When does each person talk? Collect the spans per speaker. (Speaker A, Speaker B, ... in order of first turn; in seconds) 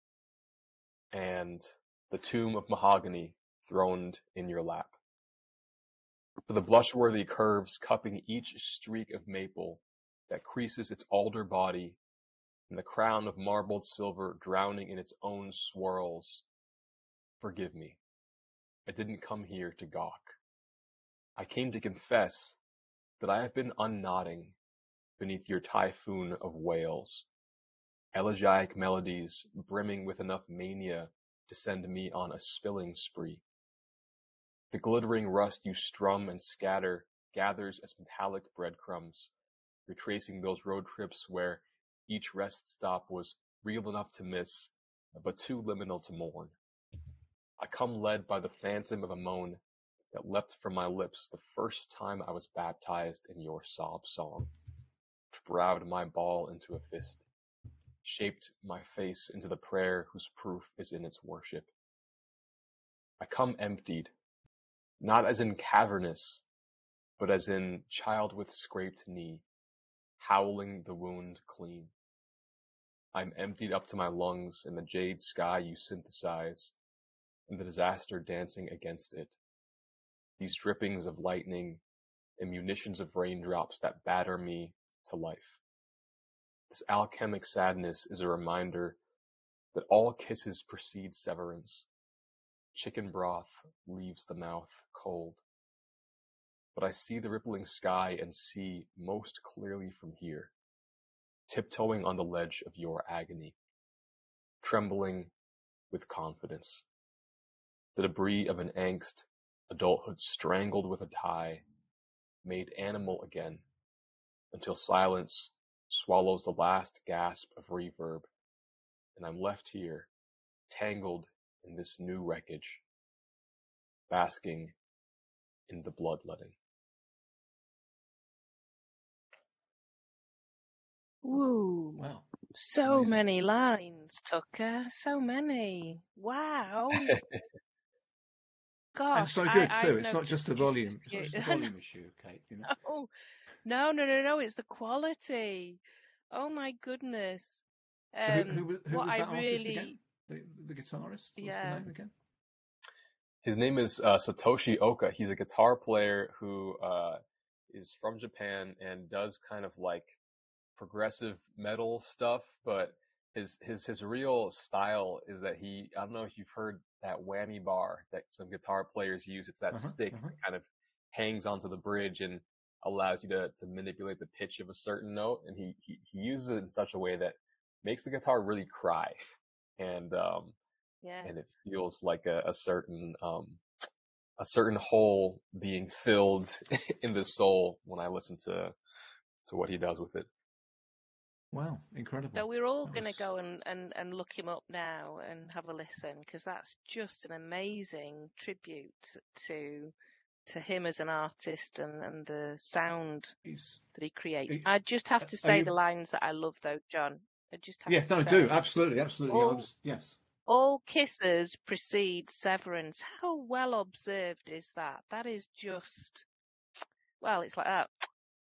Speaker A: 1.1-4.9, 6.5-12.0, 12.7-16.4, 17.4-18.0, 18.9-20.3, 21.4-22.6, 23.2-24.6, 25.2-27.3, 28.1-33.4, 34.7-39.3, 39.9-46.5, 47.6-49.6, 50.1-54.5, 55.3-57.2, 58.0-61.7, 63.2-64.1, 65.0-66.4, 67.2-69.4, 70.2-71.9, 73.1-76.7, 77.5-79.3, 80.4-81.8, 82.4-85.6, 86.7-89.0, 89.7-91.9, 92.7-95.4, 96.7-100.5, 101.5-103.5, 104.6-105.3, 105.9-106.8, 107.9-111.6, 112.4-113.6, 114.5-118.3, 119.2-120.1, 120.7-122.8, 124.1-124.7, 125.7-126.5, 136.9-137.3, 153.4-160.2, 160.8-179.2, 179.8-180.5, 181.2-183.6, 184.4-188.8, 189.4-190.3
Speaker B: 131.2-137.2, 138.9-141.7, 142.7-143.1, 143.6-145.8, 146.3-149.9, 151.4-151.9, 181.0-181.3, 192.3-199.9, 200.5-203.3, 203.9-208.6, 209.3-209.6, 210.5-216.3, 217.2-217.9
Speaker C: 132.0-132.3, 132.8-133.2, 139.1-142.7, 148.2-152.1, 169.7-170.3, 191.5-193.3, 203.4-203.8, 205.2-205.7, 207.9-210.2